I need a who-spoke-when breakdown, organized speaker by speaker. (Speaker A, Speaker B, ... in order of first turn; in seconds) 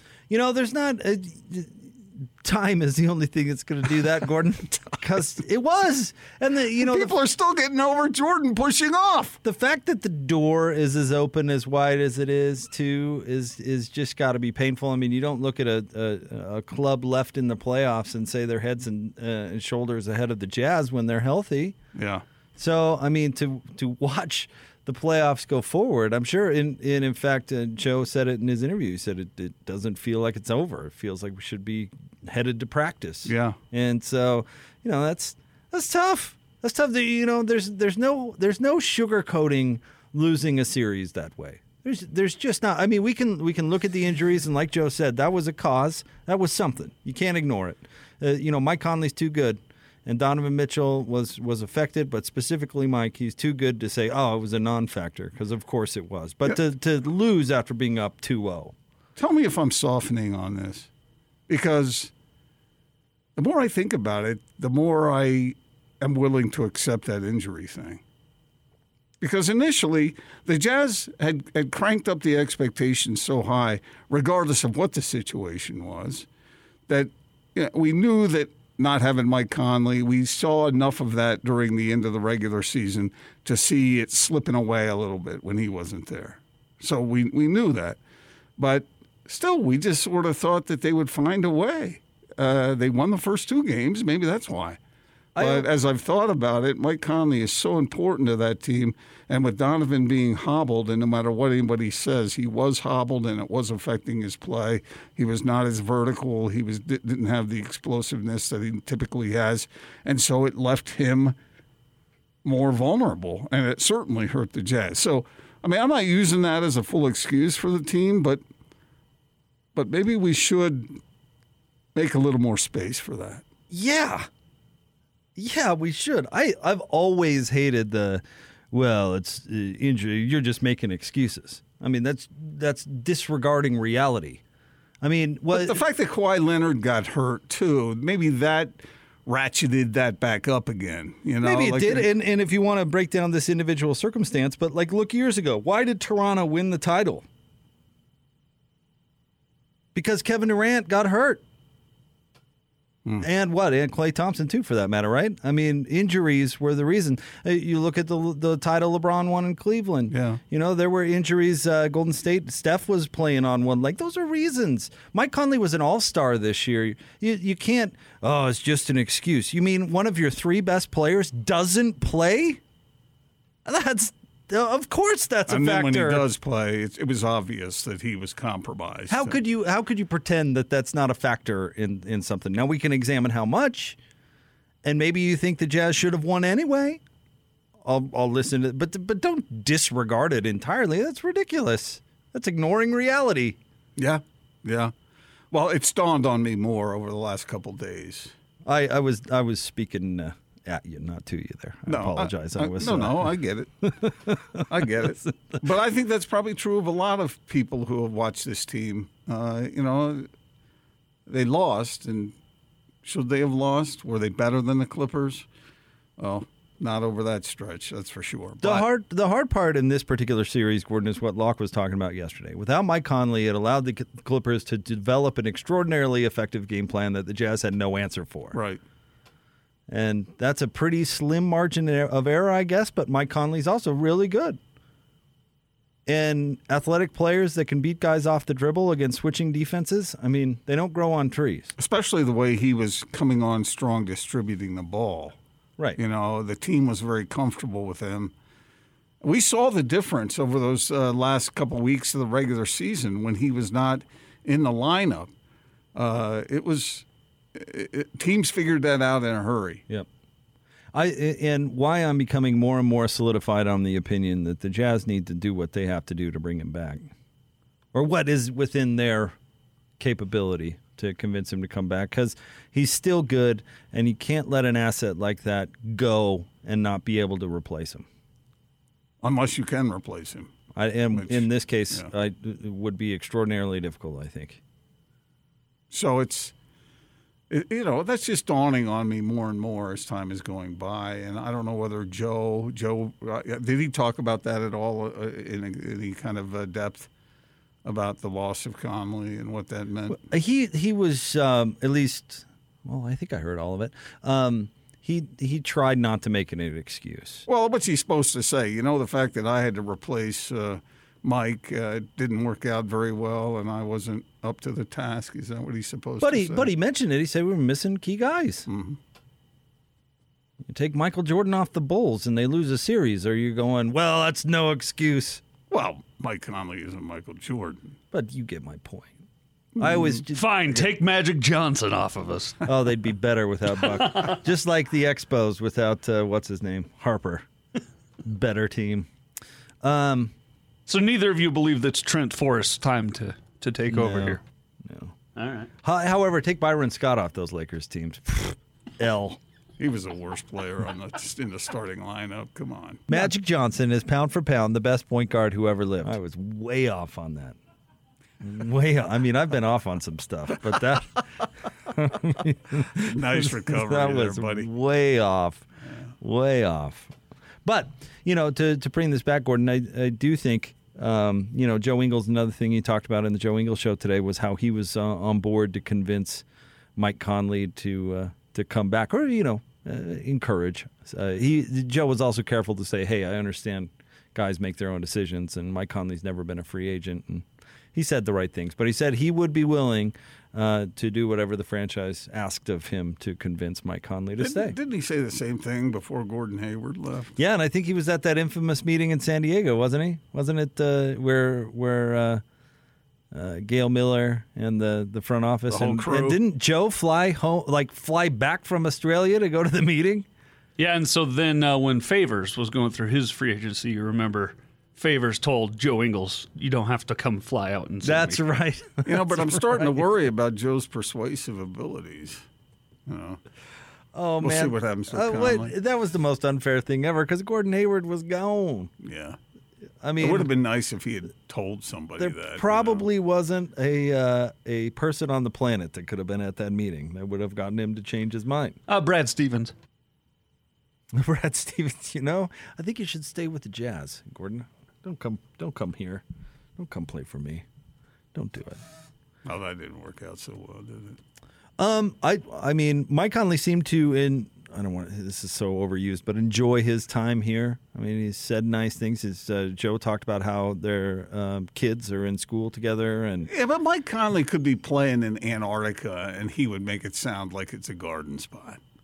Speaker A: 0.3-7.1, 9.4-21.8, 22.6-58.7, 95.3-95.7, 123.7-124.3, 125.3-134.4, 135.0-135.8, 141.4-147.2, 149.9-151.4, 153.2-172.6, 173.6-176.2, 179.1-184.0, 184.8-187.0, 187.8-193.6, 198.7-203.3, 203.9-205.6, 218.6-228.6, 229.9-234.6, 236.1-241.7, 260.9-267.1, 267.9-269.4, 270.0-278.1, 280.7-284.6, 300.1-307.5, 316.2-318.7, 320.6-325.4, 328.1-329.1, 329.8-330.9, 332.6-337.4, 338.2-339.1, 339.8-340.3, 343.9-345.1, 345.8-349.4, 353.1-357.6, 358.4-361.2, 361.9-365.6, 366.2-367.1, 367.6-376.4, 376.9-394.8, 397.4-402.4, 403.3-410.3, 418.0-420.0, 424.1-428.9, 430.0-430.5, 432.2-438.8, 441.1-446.2, 446.8-447.6, 448.3-448.8, 451.8-463.5
Speaker B: 6.8-9.4, 21.9-22.2, 33.2-33.6, 59.2-60.9, 61.5-62.1, 63.4-68.0, 69.2-76.3, 76.9-88.0, 88.6-94.8, 95.4-111.3, 112.4-118.4, 119.7-120.9, 121.9-123.4, 135.5-138.7, 139.2-142.1, 160.1-160.4, 175.5-179.3, 194.0-194.9, 195.5-198.3, 201.9-203.9, 204.7-210.3, 211.3-212.3, 213.0-215.4, 216.2-218.9, 228.5-228.8, 241.8-245.4, 246.0-248.3, 249.2-255.3, 255.9-259.8, 279.2-280.5, 281.1-282.1, 285.9-286.5, 287.5-297.1, 297.8-300.2, 307.5-316.7, 318.7-319.0, 325.7-327.9, 329.8-330.2, 349.8-353.1, 362.9-364.7, 394.4-397.3, 405.7-406.4, 419.0-422.4, 423.1-423.4, 424.4-425.7, 429.0-429.4, 430.2-433.1, 449.4-451.2, 463.5-468.8
Speaker C: 330.3-332.6, 340.9-344.4, 345.4-345.7, 410.8-418.4, 438.9-439.7